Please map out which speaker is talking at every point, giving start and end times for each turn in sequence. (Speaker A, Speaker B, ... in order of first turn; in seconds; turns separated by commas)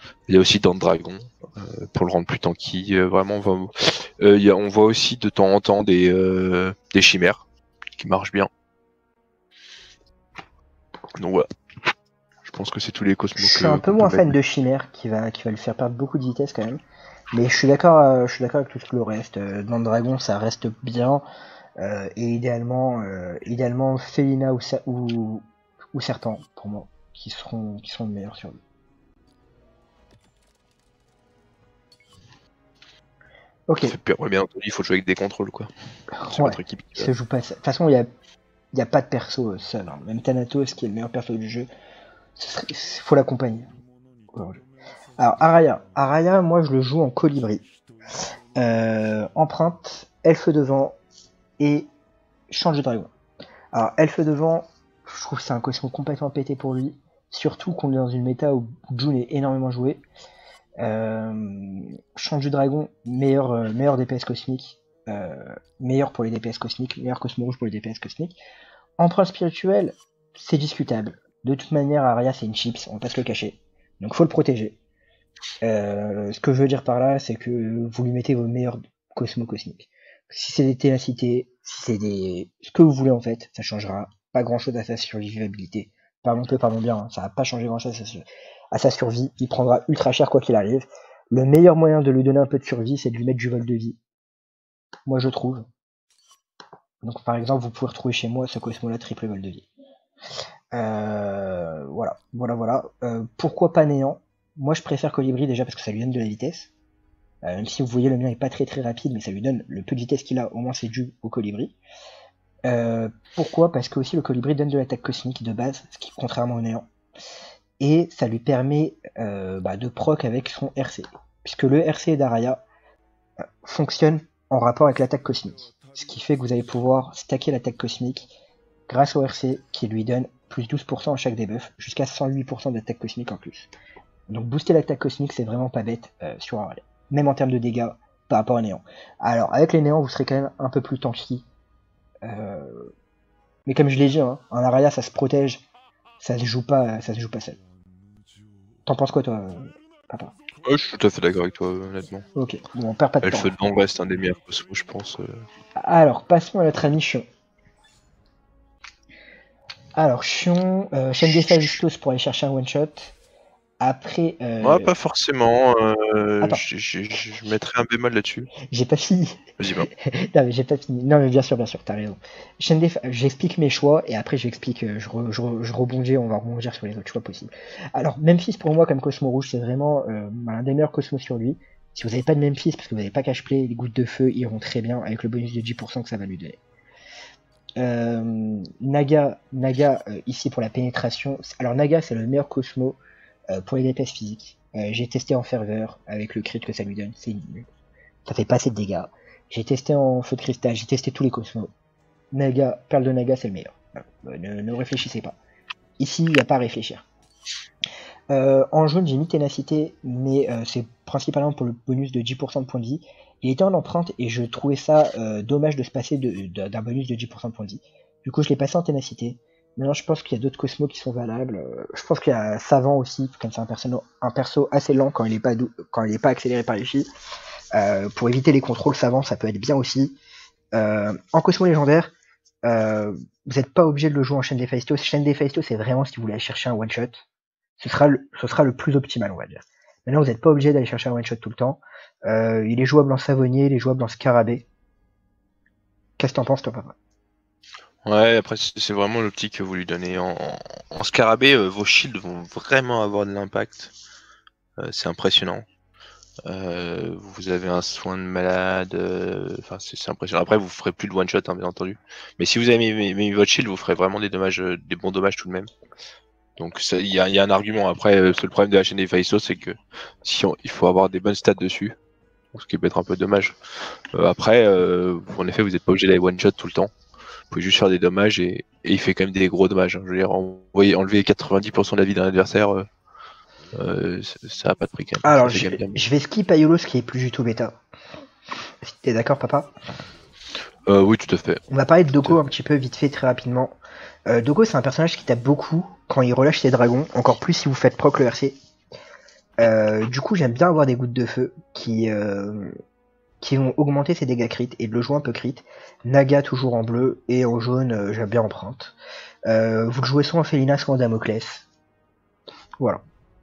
Speaker A: 0.3-7.5, Speaker A: 8.0-8.5, Speaker A: 11.2-11.5, Speaker A: 12.4-14.3, Speaker B: 13.4-16.8, Speaker B: 17.3-21.2, Speaker B: 21.8-28.6, Speaker B: 33.7-34.0, Speaker A: 33.8-35.7, Speaker B: 36.2-38.1, Speaker A: 36.3-37.1, Speaker B: 38.7-41.7, Speaker B: 42.4-43.7, Speaker B: 44.3-44.6, Speaker B: 45.2-47.6, Speaker B: 48.6-51.0, Speaker B: 51.6-51.9, Speaker B: 52.5-53.1, Speaker B: 53.7-60.0, Speaker B: 60.8-68.4, Speaker B: 69.0-74.8, Speaker B: 75.6-94.0, Speaker B: 95.1-95.7, Speaker B: 97.0-99.7, Speaker B: 100.7-106.7, Speaker B: 107.4-111.8, Speaker B: 112.7-116.9, Speaker B: 117.8-122.6, Speaker B: 123.6-128.3, Speaker B: 128.9-133.7, Speaker B: 134.3-141.4, Speaker B: 142.2-142.9, Speaker B: 143.7-145.6, Speaker B: 146.2-147.6, Speaker B: 148.9-150.3, Speaker A: 150.6-152.3, Speaker B: 152.3-153.5, Speaker A: 153.2-155.4, Speaker B: 155.8-157.3, Speaker B: 160.0-163.1, Speaker B: 163.8-164.9, Speaker A: 164.6-168.5, Speaker B: 168.7-186.6, Speaker A: 169.6-169.9, Speaker B: 187.8-193.0, Speaker B: 193.5-197.7, Speaker B: 198.2-201.7, Speaker B: 202.3-205.4, Speaker B: 206.0-207.1, Speaker B: 208.3-227.1, Speaker B: 227.7-230.2, Speaker B: 230.7-232.1, Speaker B: 232.7-237.2, Speaker B: 237.8-244.7, Speaker B: 246.2-246.9, Speaker A: 248.1-253.9, Speaker A: 254.8-255.7, Speaker A: 256.4-265.7, Speaker A: 266.6-272.0, Speaker A: 272.5-273.6, Speaker A: 274.1-276.9, Speaker A: 277.5-282.9, Speaker A: 283.7-286.0, Speaker B: 285.2-287.8, Speaker B: 288.8-289.7, Speaker A: 290.9-291.6, Speaker B: 291.7-293.8, Speaker B: 294.3-298.6, Speaker B: 299.6-302.7, Speaker B: 303.4-308.9, Speaker B: 309.5-311.6